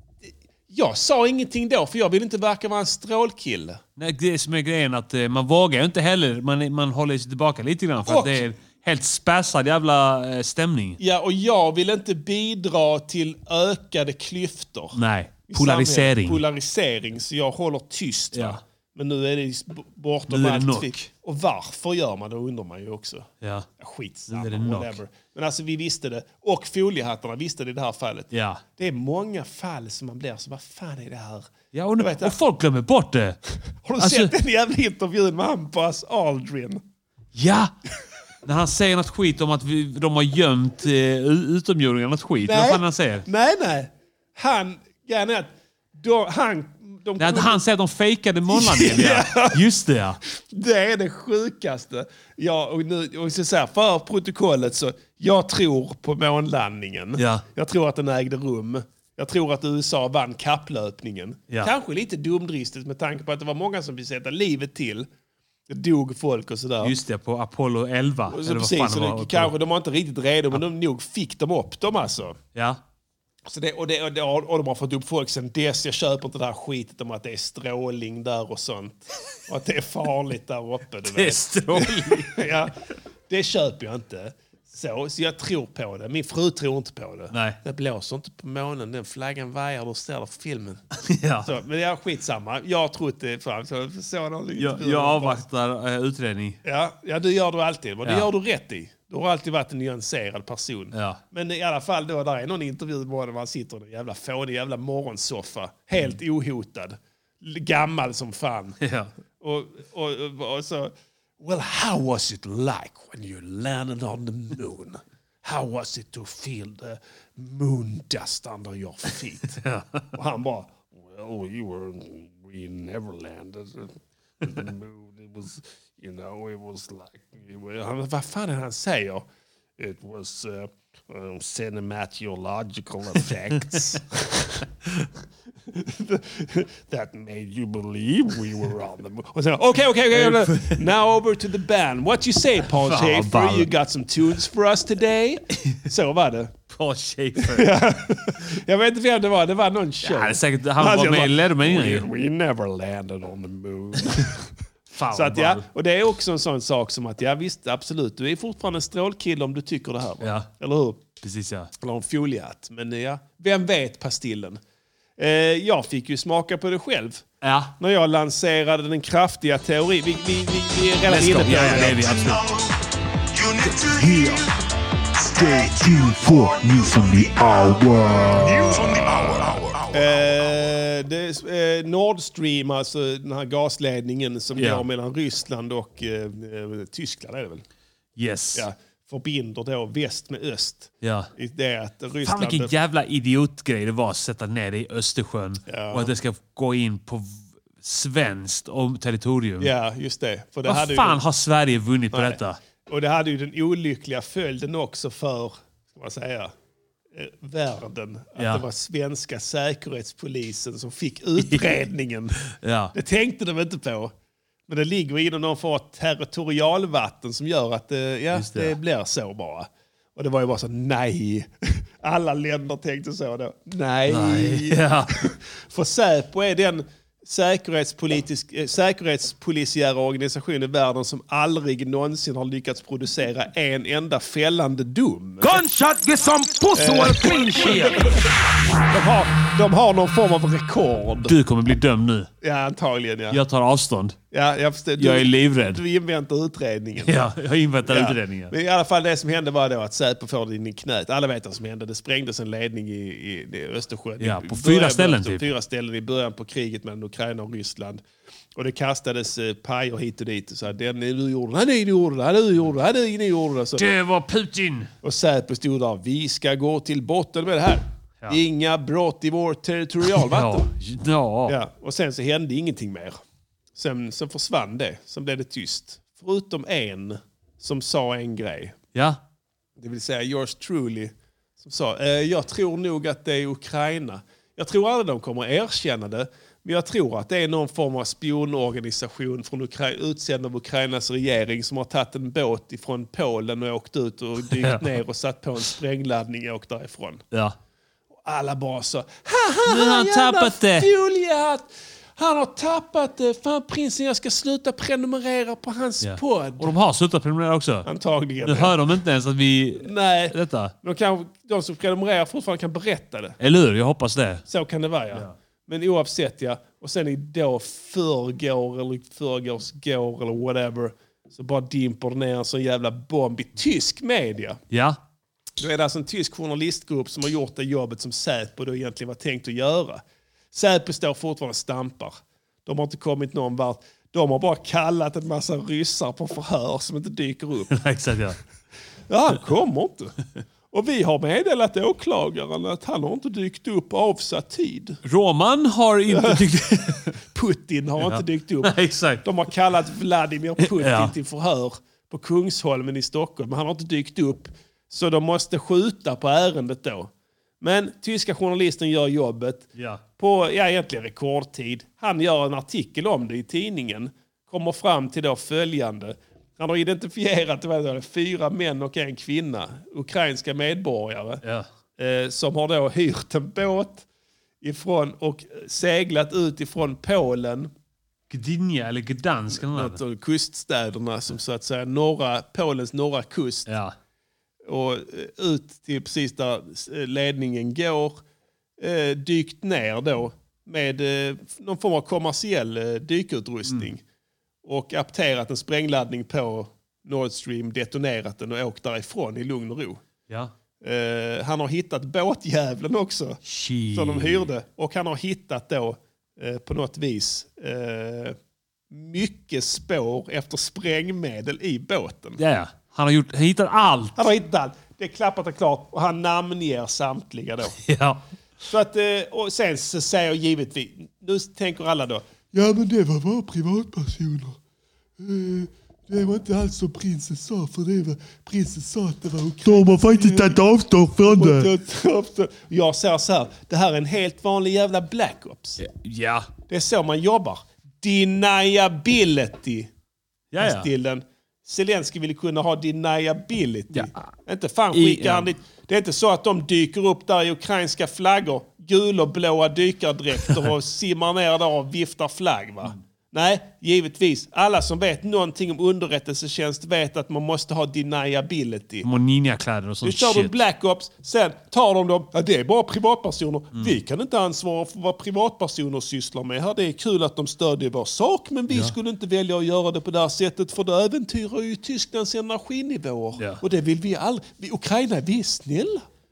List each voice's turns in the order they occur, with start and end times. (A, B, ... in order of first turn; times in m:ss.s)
0:00.2-0:03.8 A
0:04.0-0:11.0 B
0:08.0-0:08.4 A
0:11.0-0:15.0 A
0:14.9-0:16.4 B
0:15.5-0:32.4 A
0:18.3-0:18.6 B
0:20.3-0:21.1 B
0:23.4-0:23.7 B
0:24.3-0:25.0 B
0:28.3-0:28.6 B
0:31.7-0:33.4 B
0:33.7-0:36.8 A
0:34.0-0:34.3 B
0:37.3-0:37.7 B
0:38.4-0:43.2 B
0:42.4-0:47.6 A
0:47.2-0:50.2 B
0:48.5-0:49.6 A
0:50.3-1:05.1 A
0:57.2-0:57.4 B
1:05.7-1:07.0 A
1:06.8-1:09.5 B
1:08.3-1:12.4 A
1:12.5-1:12.8 B
1:13.4-1:22.7 A
1:21.1-1:22.5 B
1:23.3-1:30.8 A
1:27.3-1:27.6 B
1:31.0-1:31.5 B
1:31.4-1:35.4 A
1:34.6-1:36.6 B
1:36.6-1:48.8 A
1:40.9-1:41.2 B
1:48.8-1:49.1 B
1:49.4-1:59.6 A
1:59.6-2:00.1 B
2:00.1-2:14.6 A
2:13.6-2:14.0 B
2:15.6-2:26.5 A
2:20.1-2:20.9 B
2:22.8-2:23.7 B
2:26.7-2:27.8 B
2:27.4-2:34.5 A
2:30.0-2:32.1 B
2:34.9-2:35.6 B
2:35.1-2:41.0 A
2:40.2-2:40.5 B
2:41.2-2:41.7 B
2:41.8-2:44.6 A
2:45.2-2:47.2 A
2:47.4-2:47.7 B
2:47.8-2:52.1 A
2:51.1-2:52.5 B
2:51.9-2:52.6 C
2:53.3-2:54.5 C
2:53.6-2:54.4 B
2:55.2-3:00.0 C
2:55.4-2:58.2 B
2:59.9-3:07.6 A
3:04.5-3:04.8 B
3:08.2-3:08.7 B
3:08.5-3:12.7 A
3:11.0-3:11.3 B
3:12.2-3:19.7 B
3:15.6-3:16.1 A
3:19.6-3:21.2 A
3:20.6-3:22.6 B
3:22.1-3:26.5 A
3:27.1-3:32.4 A
3:28.4-3:28.6 B
3:31.4-3:31.8 B
3:32.4-3:32.9 B
3:32.9-3:34.1 A
3:34.7-3:55.6 A
3:38.3-3:38.8 B
3:44.1-3:45.2 B
3:55.4-3:58.2 C
3:56.7-3:58.2 A
3:58.9-4:01.4 A
4:01.2-4:02.3 B
4:02.4-4:03.4 A
4:03.3-4:04.2 B
4:04.3-4:07.3 A
4:05.0-4:05.8 B
4:07.0-4:08.5 B
4:07.8-4:18.0 A
4:14.2-4:15.5 B
4:18.5-4:23.9 A
4:23.8-4:24.9 B
4:25.0-4:30.7 A
4:30.2-4:31.6 B
4:31.5-4:33.2 A
4:33.7-4:38.8 A
4:38.9-4:39.2 B
4:39.8-4:57.2 A
4:54.5-4:54.8 B
4:58.2-5:06.7 A
4:59.7-5:00.9 B
5:06.0-5:07.9 B
5:07.8-5:08.8 A
5:08.4-5:10.7 B
5:09.8-5:13.4 A
5:13.4-5:14.4 B
5:14.4-5:24.6 A
5:24.7-5:25.0 B
5:25.6-5:37.7 A
5:37.7-5:38.4 B
5:39.1-5:40.2 A
5:40.7-5:45.0 A
5:45.0-5:47.2 B
5:46.1-5:46.4 A
5:47.1-6:11.4 A
5:48.0-5:49.2 B
5:50.6-5:51.1 B
5:59.7-6:00.0 B
6:11.4-6:11.7 B
6:12.0-6:14.0 A
6:14.6-6:17.7 A
6:18.3-6:20.0 B
6:19.5-6:23.7 A
6:23.7-6:23.9 B
6:24.6-6:28.2 A
6:28.8-6:34.0 A
6:34.6-6:40.0 A
6:40.8-6:48.4 A
6:43.4-6:44.5 B
6:48.9-6:52.4 A
6:52.4-6:54.2 B
6:54.2-6:57.8 A
6:57.8-6:58.2 B
6:58.6-7:04.6 A
7:05.2-7:15.8 A
7:09.7-7:11.7 B
7:15.8-7:16.5 B
7:16.7-7:19.9 A
7:20.5-7:20.9 B
7:20.6-7:39.1 A
7:23.9-7:24.2 B
7:24.9-7:25.5 B
7:39.0-7:40.6 B
7:40.0-7:56.0 A
7:48.7-7:48.9 B
7:53.4-7:53.6 B